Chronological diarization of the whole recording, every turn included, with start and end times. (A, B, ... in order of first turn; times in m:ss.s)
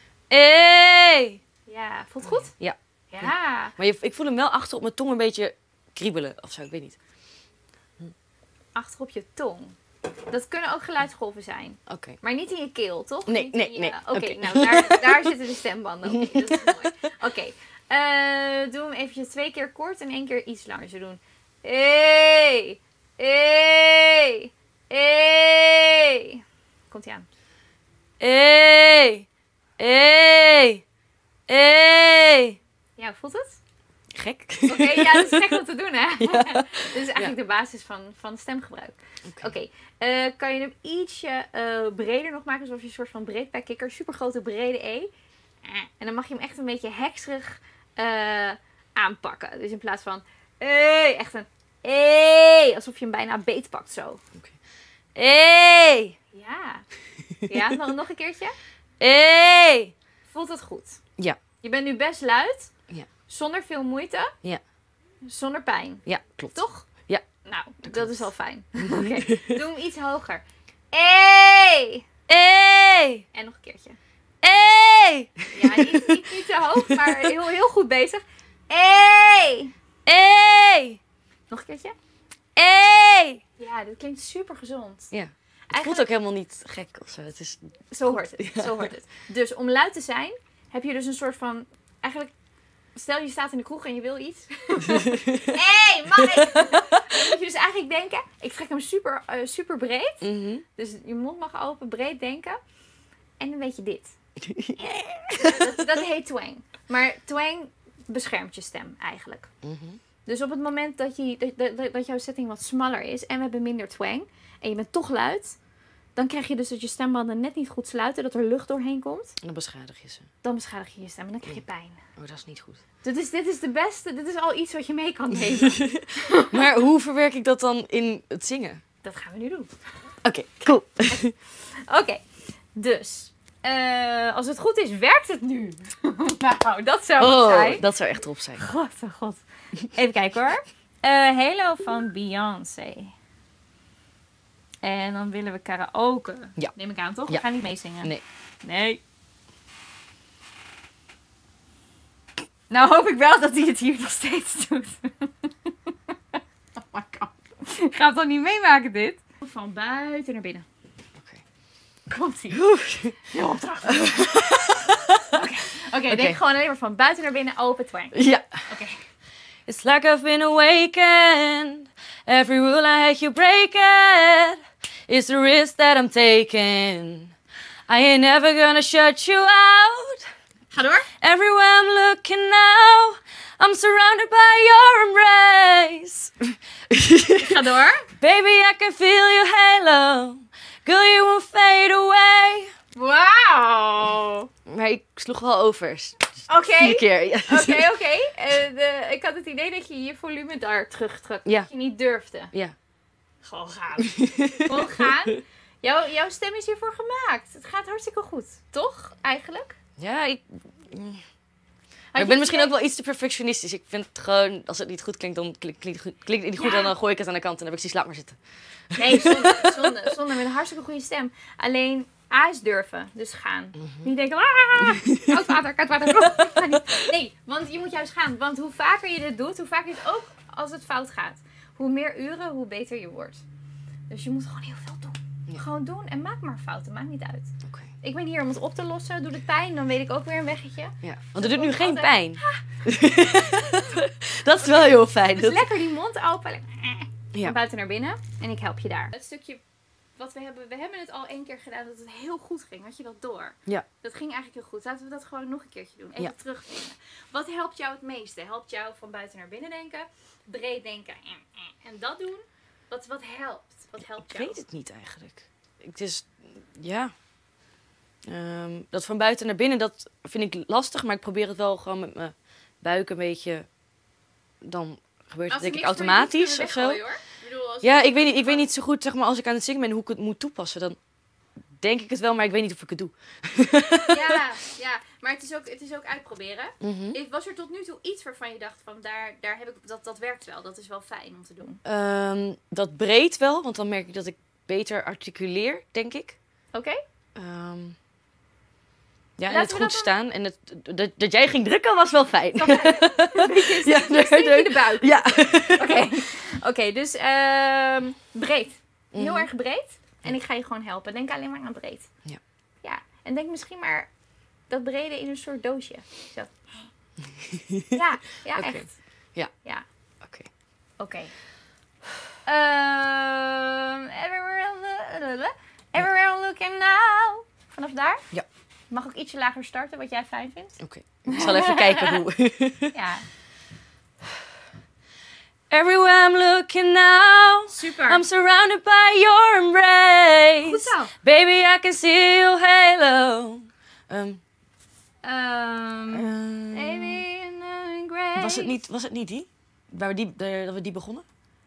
0:00.3-0:01.4 A
0:01.7-0:02.5 B
0:02.3-0:07.0 A
0:03.1-0:03.8 B
0:08.8-0:09.8 B
0:10.3-0:27.2 B
0:11.9-0:12.2 A
0:13.2-0:15.4 A
0:16.1-0:16.9 A
0:28.2-0:29.2 A
0:29.8-0:30.8 A
0:31.5-0:32.6 A
0:33.0-0:33.6 B
0:34.1-0:35.6 A
0:34.7-0:45.1 B
0:36.2-0:37.3 A
0:45.6-0:54.2 B
0:55.2-0:56.2 A
0:56.3-0:56.8 B
0:57.4-0:57.7 A
0:57.4-0:58.5 B
0:59.0-0:59.9 A
1:00.3-1:01.0 B
1:01.6-1:02.7 B
1:03.3-1:04.3 B
1:05.2-1:06.9 B
1:06.0-1:07.2 A
1:07.4-1:12.0 B
1:07.8-1:09.6 A
1:12.3-1:13.2 A
1:13.3-1:14.0 B
1:14.4-1:16.2 A
1:15.5-1:19.7 B
1:16.8-1:17.1 A
1:20.0-1:21.0 A
1:21.5-1:21.9 B
1:22.6-1:23.4 A
1:23.6-1:25.1 B
1:25.1-1:28.9 A
1:25.7-1:26.1 B
1:27.9-1:32.3 B
1:32.9-1:42.6 B
1:34.9-1:35.6 A
1:36.2-1:36.7 A
1:40.2-1:40.6 A
1:43.4-1:44.1 B
1:44.4-1:45.8 A
1:45.3-1:49.5 B
1:49.6-1:50.0 A
1:50.2-1:55.6 B
1:56.1-1:59.3 B
1:59.4-2:00.3 A
2:00.4-2:02.0 B
2:02.2-2:02.8 A
2:03.0-2:06.5 B
2:05.5-2:08.8 A
2:09.0-2:10.0 B
2:10.2-2:11.3 A
2:11.1-2:12.2 B
2:12.8-2:17.8 B
2:17.2-2:18.7 A
2:18.6-2:23.1 B
2:24.8-2:29.0 B
2:32.7-2:40.6 B
2:42.1-2:42.7 B
2:42.5-2:43.3 A
2:43.3-2:44.7 B
2:43.9-2:45.3 A
2:45.3-2:49.0 B
2:46.1-2:46.4 A
2:48.1-2:48.7 A
2:49.7-2:57.3 A
2:57.9-3:00.2 A
3:00.7-3:01.1 B
3:01.2-3:07.6 A
3:07.4-3:08.1 B
3:08.2-3:12.7 A
3:13.0-3:14.5 B
3:14.7-3:17.9 A
3:16.5-3:22.5 B
3:23.4-3:29.8 B
3:24.0-3:25.1 A
3:30.0-3:31.2 A
3:32.1-3:32.7 B
3:32.2-3:39.9 A
3:36.6-3:36.9 B
3:39.0-3:53.4 B
3:45.1-3:45.4 A
3:54.1-4:02.6 B
4:01.0-4:05.7 A
4:03.4-4:03.9 B
4:04.6-4:09.6 B
4:10.2-4:24.6 B
4:24.1-4:27.2 A
4:28.2-4:33.8 A
4:34.6-4:37.2 A
4:35.5-4:38.7 B
4:37.8-4:41.0 A
4:41.8-4:44.3 A
4:44.1-4:51.8 B
4:46.8-4:47.2 A
4:51.8-4:56.4 A
4:56.7-4:57.0 B
4:57.4-4:58.0 A
4:59.4-5:06.1 A
4:59.5-5:00.1 B
5:02.5-5:12.2 B
5:09.1-5:09.5 A
5:12.8-5:16.9 B
5:17.5-5:18.0 A
5:17.9-5:19.9 B
5:18.5-5:19.5 A
5:20.2-5:20.5 A
5:21.0-5:21.4 B
5:22.4-5:28.3 B
5:28.9-5:32.2 B
5:30.8-5:32.9 A
5:32.9-5:33.2 B
5:35.7-5:44.4 A
5:37.7-5:38.2 B
5:40.6-5:41.1 B
5:45.2-5:48.8 B
5:46.1-5:47.2 A
5:48.4-5:51.2 A